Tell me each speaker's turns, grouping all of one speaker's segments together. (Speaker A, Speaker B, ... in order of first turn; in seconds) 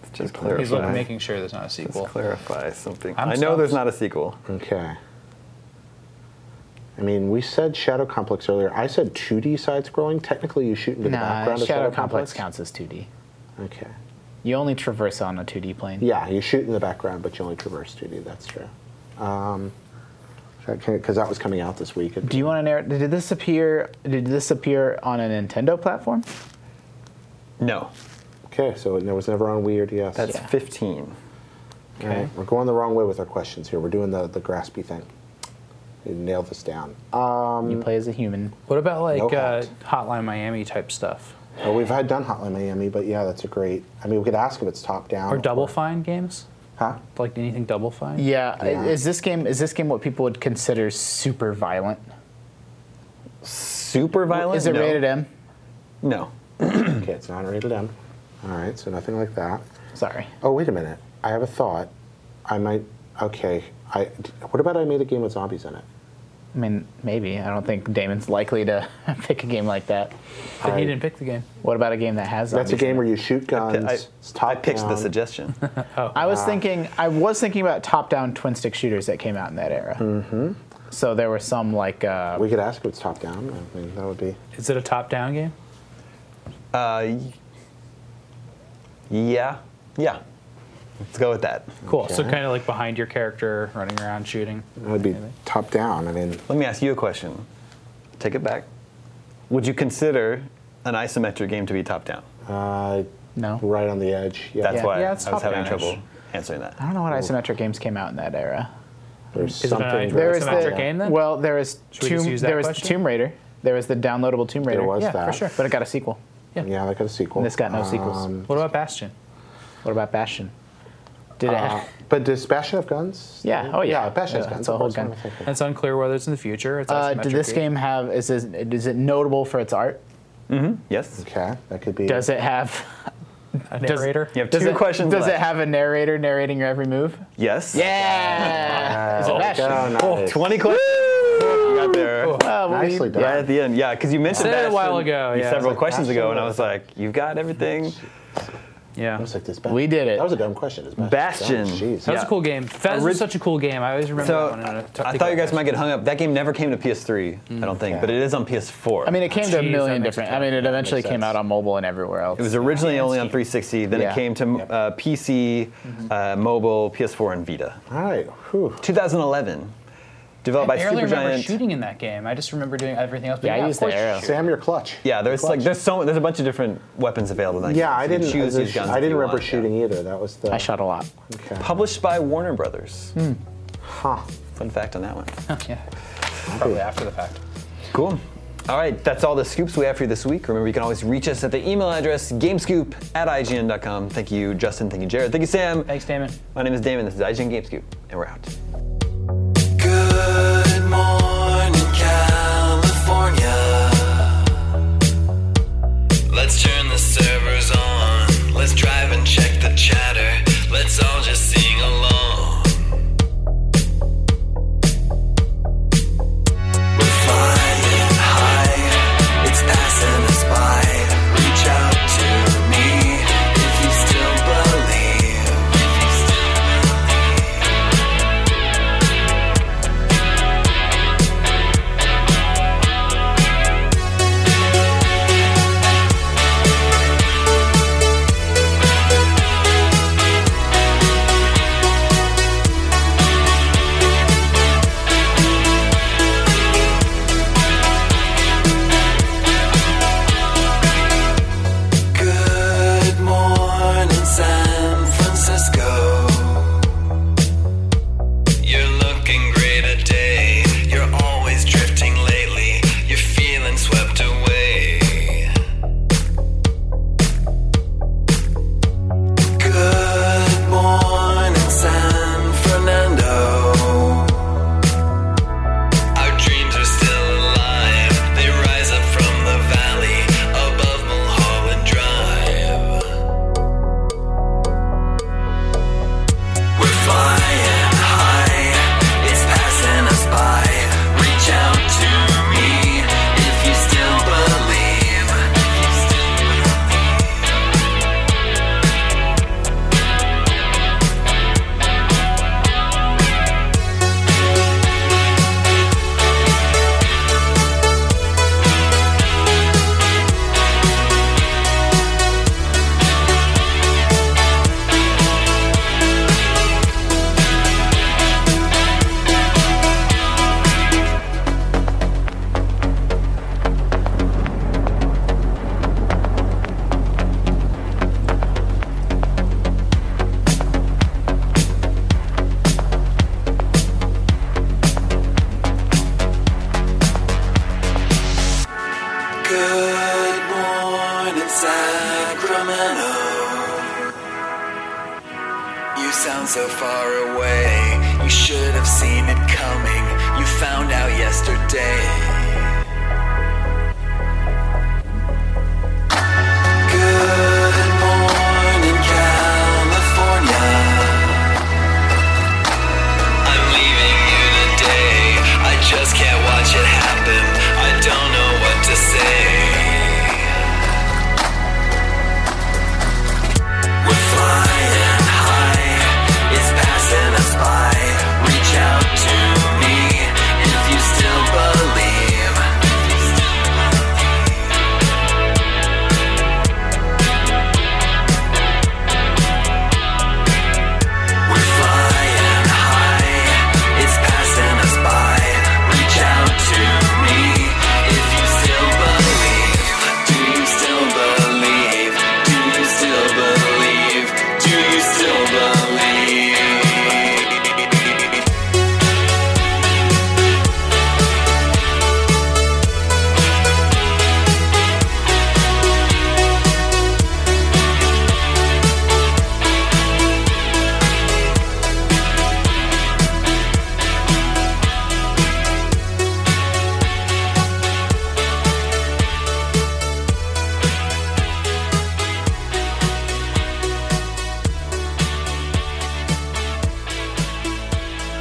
Speaker A: 0.1-1.1, 1.8-4.4, 27.6-27.9, 30.1-31.1, 53.4-55.1, 56.0-57.0, 73.5-75.6, 86.7-87.3, 89.1-90.2, 91.0-91.7, 96.5-97.5, 98.2-98.7, 99.5-102.2, 104.6-106.8, 130.5-131.2, 134.3-135.4, 137.4-138.9, 140.0-142.4, 143.1-148.0, 151.0-153.3, 154.2-159.2, 162.4-167.8, 168.8-169.7, 170.4-171.6, 175.0-179.7, 181.6-183.1, 184.6-185.3, 187.9-195.9, 196.5-198.5
Speaker B: 0.2-1.0, 4.5-5.0, 7.0-12.4, 13.6-13.9, 16.0-19.7, 20.6-22.5, 28.5-30.3, 32.0-35.1, 36.0-37.9, 39.1-39.7, 41.6-45.7, 48.6-48.9, 57.0-59.6, 60.4-61.9, 62.5-65.8, 70.6-71.0, 72.5-75.1, 76.2-76.6, 80.0-80.6, 82.3-84.4, 91.8-92.4, 94.8-96.4, 102.5-103.1, 103.6-104.9, 109.3-110.9, 114.7-115.4, 116.6-118.5, 121.4-125.5, 131.2-132.3, 138.6-140.5, 142.6-143.5, 145.6-146.6, 149.2-152.2, 157.7-158.2, 160.5-161.3, 167.9-168.8, 174.2-175.8, 177.6-180.7, 181.3-181.7, 183.8-184.2, 186.5-186.8
Speaker C: 0.5-2.1, 3.1-3.8, 38.7-41.3, 45.3-46.4, 47.1-48.3, 70.6-71.5, 75.8-76.2, 84.5-85.5, 91.9-95.2, 104.9-106.0, 109.6-111.2, 111.9-113.0, 115.0-115.6, 118.5-119.1, 125.5-127.6, 133.7-134.3, 138.8-140.2, 142.2-142.5, 144.3-145.8, 148.9-149.3, 152.0-155.7, 159.4-160.4, 162.7-163.3, 170.6-174.6, 185.5-185.8, 186.5-187.4, 195.8-196.3
Speaker D: 11.0-13.1, 14.4-16.1, 22.2-26.2, 37.6-38.5, 48.2-52.0, 54.3-55.3, 59.9-60.3, 66.5-70.1, 71.6-73.2, 76.1-80.1, 80.9-82.5, 103.3-103.6, 104.7-105.7, 106.8-108.7, 110.1-116.2, 117.4-118.3, 119.8-120.5, 121.4-121.9, 123.4-125.1, 126.9-130.0, 132.0-132.9, 133.7-140.0, 142.3-143.4, 149.7-150.3, 159.0-163.0, 163.9-164.2, 173.4-174.3, 180.5-181.1
Speaker E: 199.8-204.4, 206.3-212.9, 216.9-227.3, 252.1-256.9, 258.6-265.5, 269.6-274.4, 276.1-283.1, 286.8-297.0, 339.4-344.1, 345.9-352.7, 356.8-361.5, 363.4-370.5, 374.0-383.7, 391.4-407.4